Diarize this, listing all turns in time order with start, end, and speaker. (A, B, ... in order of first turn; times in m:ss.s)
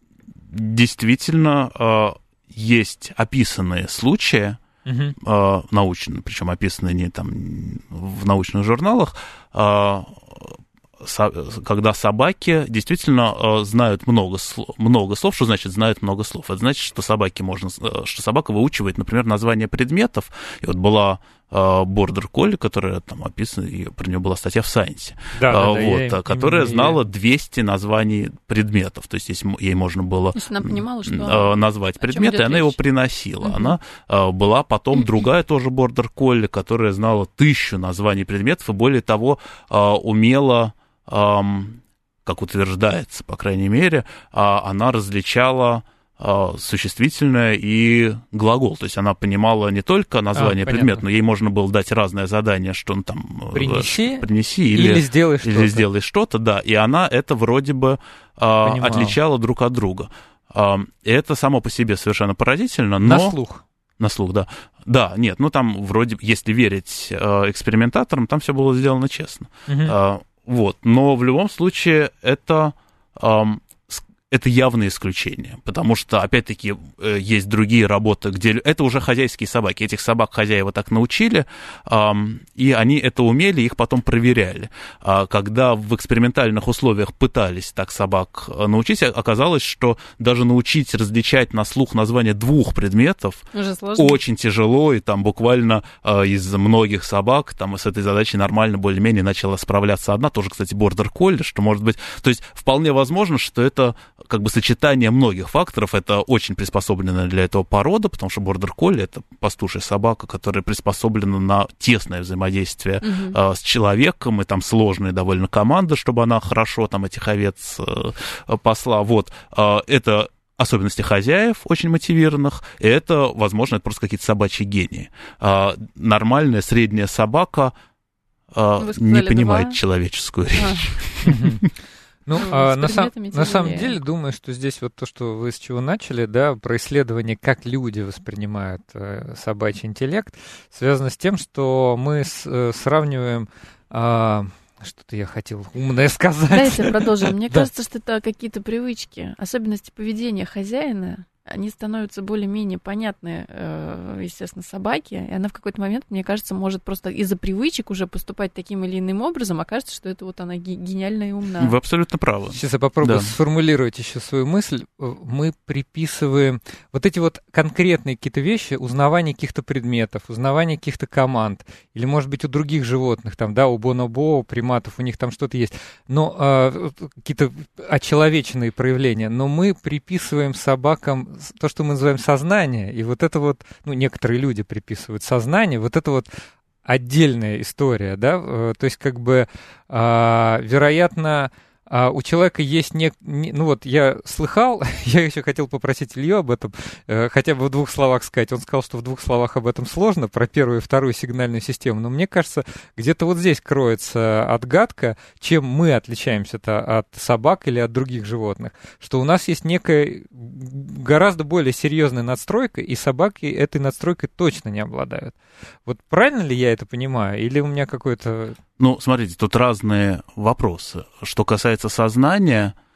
0:00.5-0:04.6 A
0:04.8-0:05.2 B
0:05.2-1:03.4 A
0:25.3-0:27.0 B
0:30.4-0:32.8 C
0:33.4-0:33.8 C
0:50.3-0:51.0 B
0:53.5-0:55.9 B
0:58.6-0:59.2 B
1:03.0-1:03.6 B
1:04.0-1:33.4 A
1:09.7-1:10.0 B
1:33.5-1:34.2 C
1:34.0-2:07.7 A
1:53.0-1:53.4 C
2:08.5-2:11.6 A
2:08.8-2:09.8 C
2:10.6-2:10.9 C
2:11.2-2:11.6 B
2:12.3-2:27.7 B
2:12.4-2:14.0 C
2:26.5-2:41.7 C
2:41.6-2:43.3 A
2:42.5-3:38.6 B
3:38.8-3:42.8 A